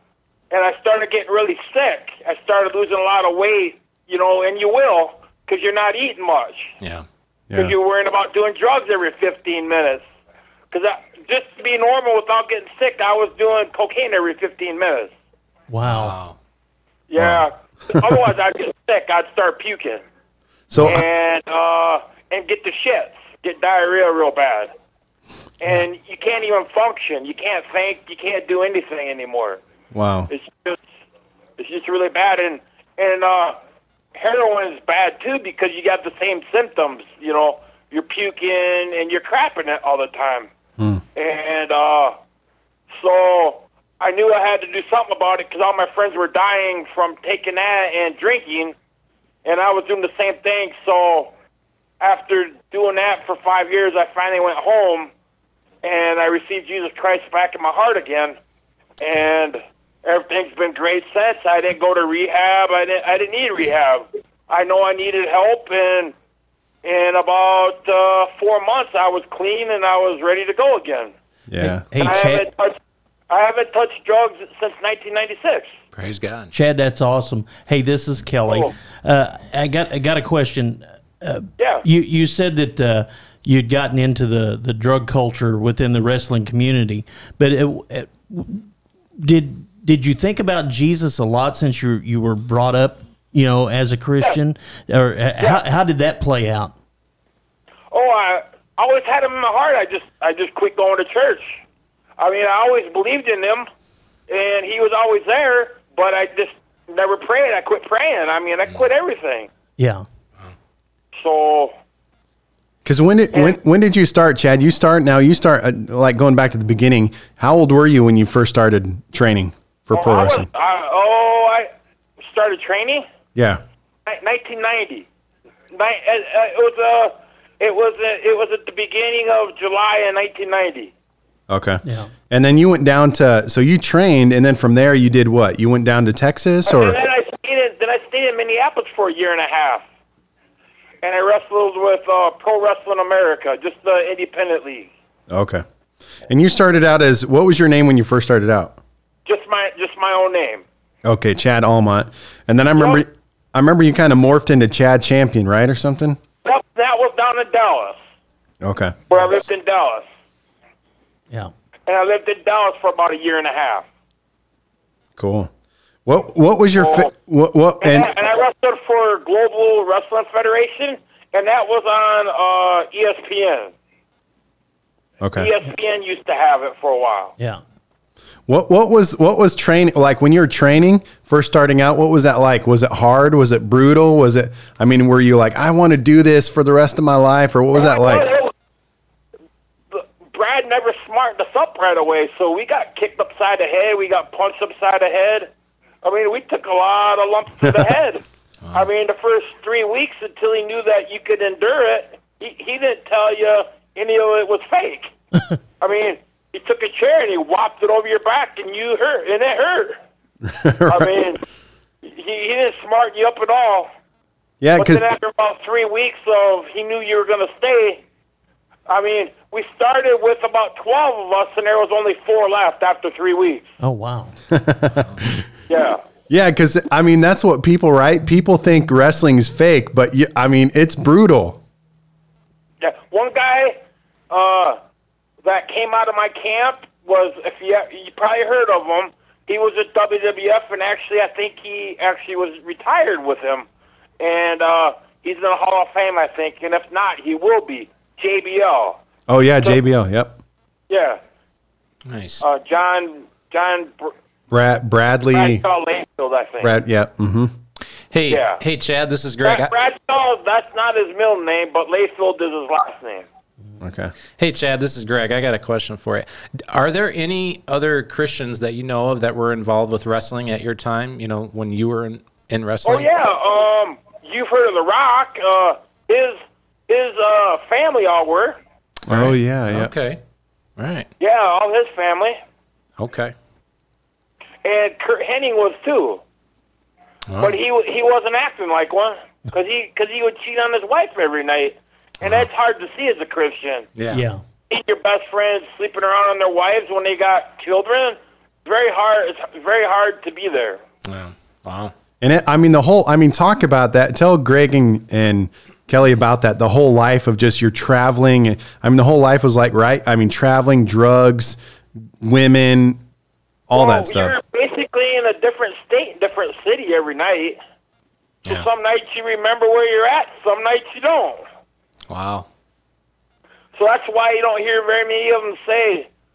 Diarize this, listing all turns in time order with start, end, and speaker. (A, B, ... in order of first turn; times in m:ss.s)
0:00.5-0:06.7 A
0:07.5-0:10.0 A
0:10.7-0:15.1 A
0:15.7-0:16.1 B
0:15.9-0:16.4 C
0:17.1-0:20.0 A
0:17.2-0:18.1 D
0:20.7-0:21.0 D
0:20.8-0:24.7 A
0:25.6-0:29.6 A
0:29.9-0:30.3 D
0:30.3-0:30.8 A
0:31.6-0:33.6 A
0:34.1-0:40.5 A
0:41.1-0:42.1 A
0:42.9-0:48.8 A
0:49.4-0:51.3 A
0:52.0-0:55.1 A
0:55.8-0:58.4 A
0:59.0-1:06.1 A
1:06.8-1:11.1 A
1:11.5-1:11.8 D
1:11.6-1:12.4 B
1:12.0-1:12.8 A
1:13.3-1:15.7 A
1:15.9-1:16.5 C
1:16.5-1:28.6 B
1:21.6-1:21.8 A
1:29.2-1:36.7 B
1:37.9-1:41.6 A
1:42.2-1:43.7 A
1:44.3-1:49.5 A
1:49.8-1:50.0 B
1:51.1-1:51.7 A
1:52.8-2:00.5 D
1:59.9-2:01.7 A
2:02.2-2:03.0 A
2:03.4-2:03.6 D
2:04.0-2:05.1 A
2:05.7-2:10.9 A
2:11.5-2:17.0 D
2:11.8-2:12.1 B
2:16.6-2:19.8 A
2:21.0-2:24.9 A
2:25.3-2:25.6 D
2:26.2-2:28.8 D
2:29.2-2:30.6 A
2:31.0-2:36.2 D
2:32.8-2:33.0 A
2:36.4-2:38.0 A
2:38.6-2:39.0 D
2:39.1-2:40.0 A
2:41.9-2:43.9 A
2:45.2-2:45.5 D
2:46.0-2:48.1 D
2:46.8-2:47.1 A
2:47.8-2:53.7 A
2:55.2-2:55.5 D
2:55.4-2:57.3 A
2:58.5-3:08.3 D
3:07.8-3:08.5 A
3:09.9-3:15.5 A
3:16.0-3:25.1 A
3:25.8-3:30.0 A
3:30.4-3:31.1 D
3:30.9-3:31.4 A
3:32.0-3:33.9 A
3:34.6-3:35.0 D
3:34.8-3:38.0 A
3:38.9-3:43.7 A
3:43.8-3:44.4 B
3:44.5-3:45.4 D
3:45.7-3:46.0 A
3:46.3-3:51.6 D
3:52.8-3:53.8 A
3:54.3-3:54.8 A
3:55.4-4:03.6 A
4:04.2-4:09.0 A
4:09.3-4:10.4 D
4:10.9-4:11.2 A
4:12.1-4:12.4 C
4:12.4-4:14.1 A
4:14.5-4:15.6 D
4:15.3-4:16.7 A
4:16.6-4:17.5 D
4:18.1-4:19.7 C
4:18.3-4:18.6 A
4:19.4-4:23.2 A
4:23.8-4:24.1 D
4:24.4-4:33.1 C
4:32.8-4:38.6 A
4:39.1-4:39.9 D
4:39.1-4:40.2 C
4:40.8-4:41.1 C
4:41.2-4:42.4 A
4:43.0-4:43.3 C
4:44.6-4:46.2 A
4:47.3-4:47.6 C
4:47.4-4:53.9 A
4:52.2-4:52.5 C
4:54.0-4:54.2 C
4:54.1-4:54.4 B
4:54.7-5:00.8 A
5:01.1-5:01.9 C
5:02.2-5:11.6 D
5:12.2-5:13.0 D
5:13.7-5:14.4 D
5:13.7-5:17.6 A
5:18.4-5:21.4 A
5:22.1-5:22.5 C
5:23.7-5:26.1 A